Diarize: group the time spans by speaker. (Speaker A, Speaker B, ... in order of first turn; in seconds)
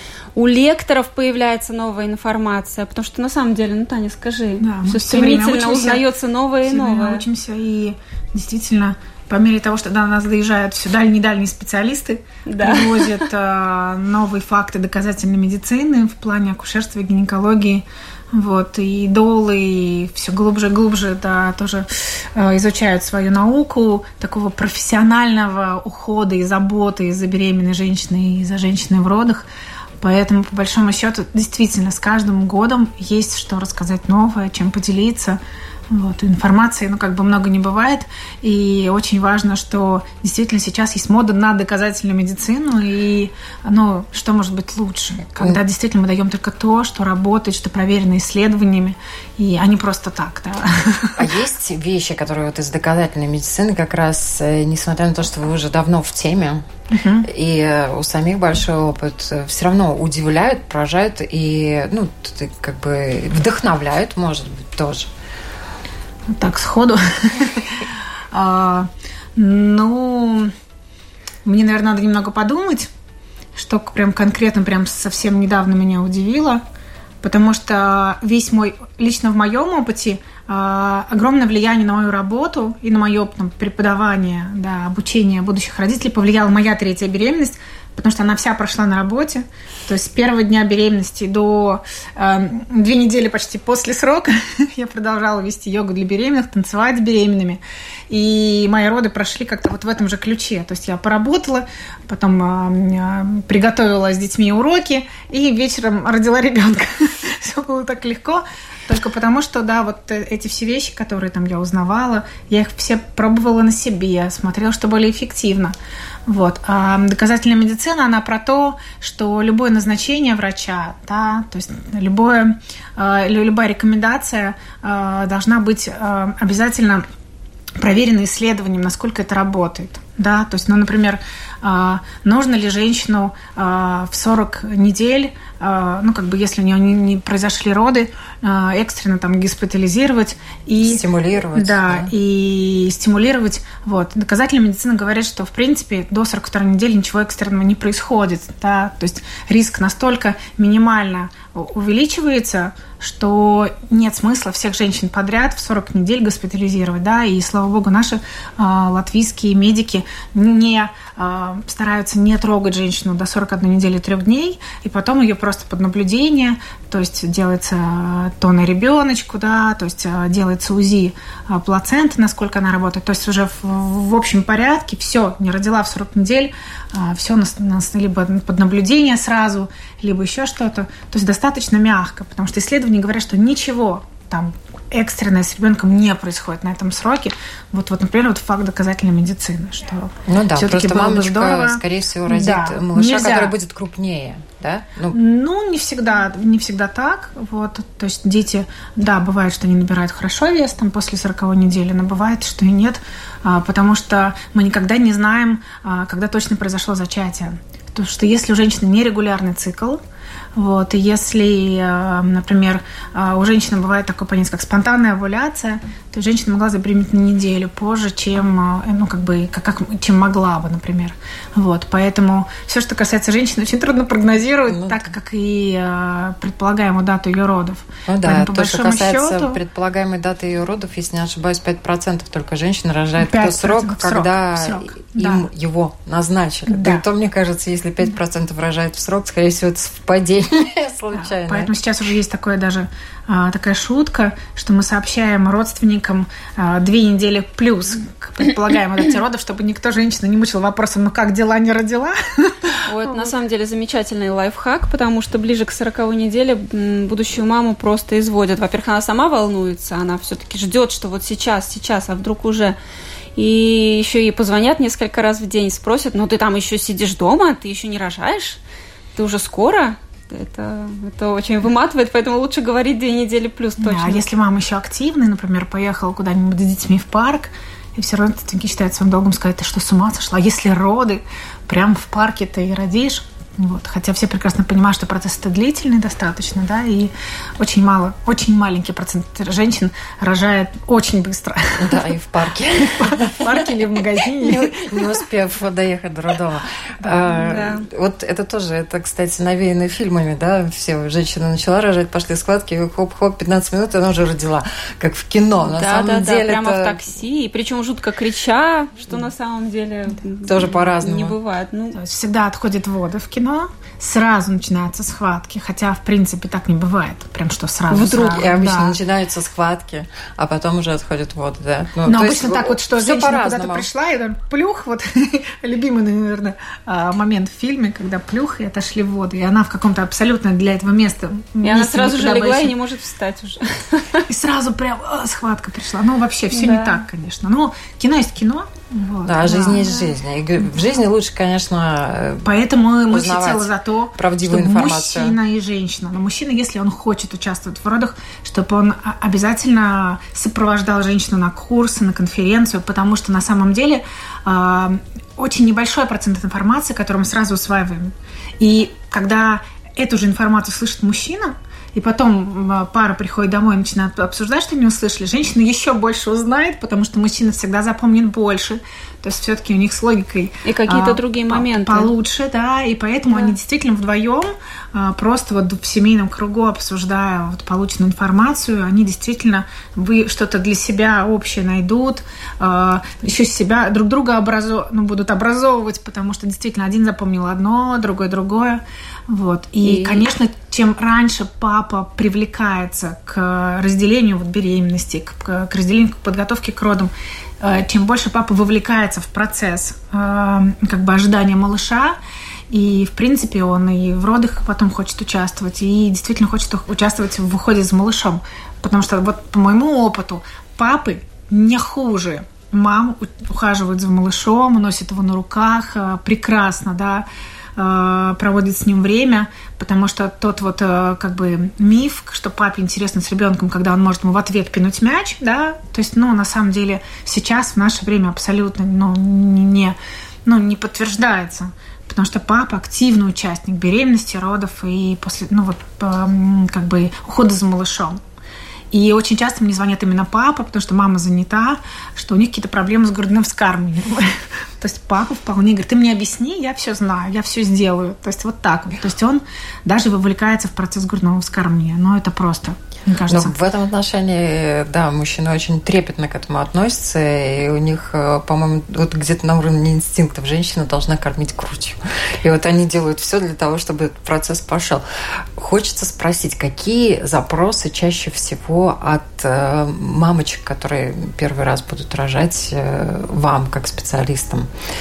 Speaker A: 0.4-7.2, 12.5-13.3, 252.9-262.8, 263.4-268.6, 269.2-274.2, 297.4-297.9, 305.6-312.0, 331.6-334.3, 336.5-337.0, 370.6-372.1
Speaker B: 4.6-6.0, 6.7-29.5, 30.0-35.4, 35.9-51.3, 56.9-57.3, 66.3-70.5, 71.5-72.9, 73.5-76.6, 77.2-115.8, 116.3-127.0, 127.8-193.5, 195.1-210.0, 210.6-229.6, 233.2-235.5, 236.7-237.1, 241.1-253.3, 273.8-292.2, 292.9-295.2, 311.9-319.0, 322.1-332.8, 334.3-339.9, 342.4-402.2, 402.7-438.2, 438.9-453.5
Speaker C: 51.2-56.7, 57.2-65.1, 140.8-142.1, 190.3-195.2, 224.7-225.0, 228.1-241.7, 291.8-293.7, 294.3-307.1, 310.4-311.4, 317.9-323.9, 339.2-342.5, 343.1-345.4, 389.9-390.2, 453.3-474.7